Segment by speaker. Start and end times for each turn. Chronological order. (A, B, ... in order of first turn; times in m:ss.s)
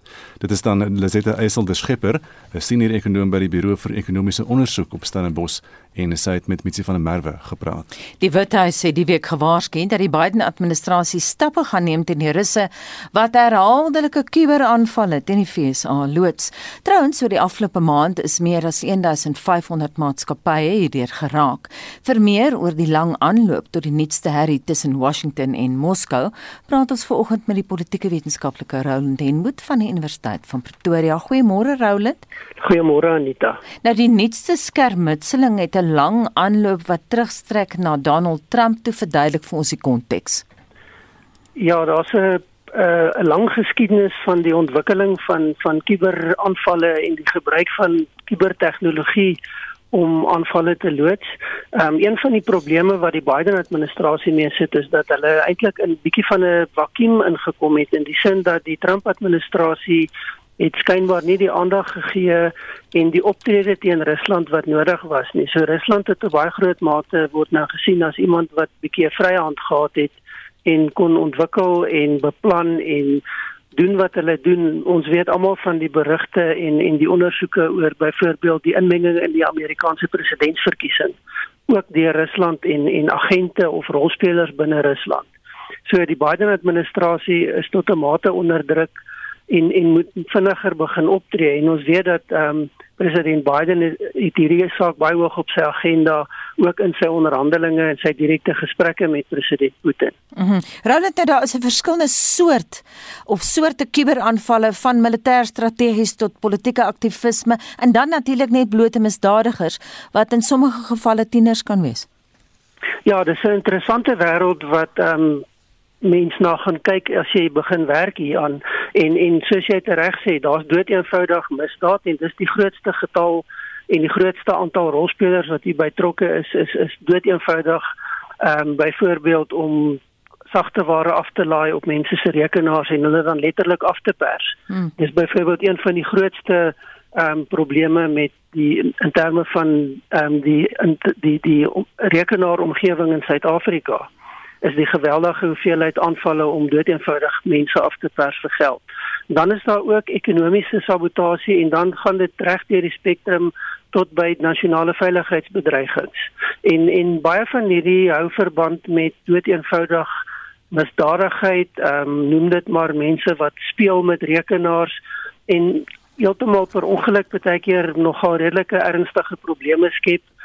0:00.4-0:07.9 A
0:08.2-0:32.2 B
0:32.6-0:33.6 C
0:33.8-0:40.4 B
0:41.6-0:49.4 C
0:49.9-1:21.2 C
1:21.7-1:25.3 C
1:25.9-1:40.2 C
1:40.4-1:52.1 B
1:53.1-1:55.4 C
1:56.0-2:07.9 C
2:08.4-2:24.1 C
2:24.6-2:40.1 C
2:40.7-2:45.0 C
2:45.5-2:50.3 C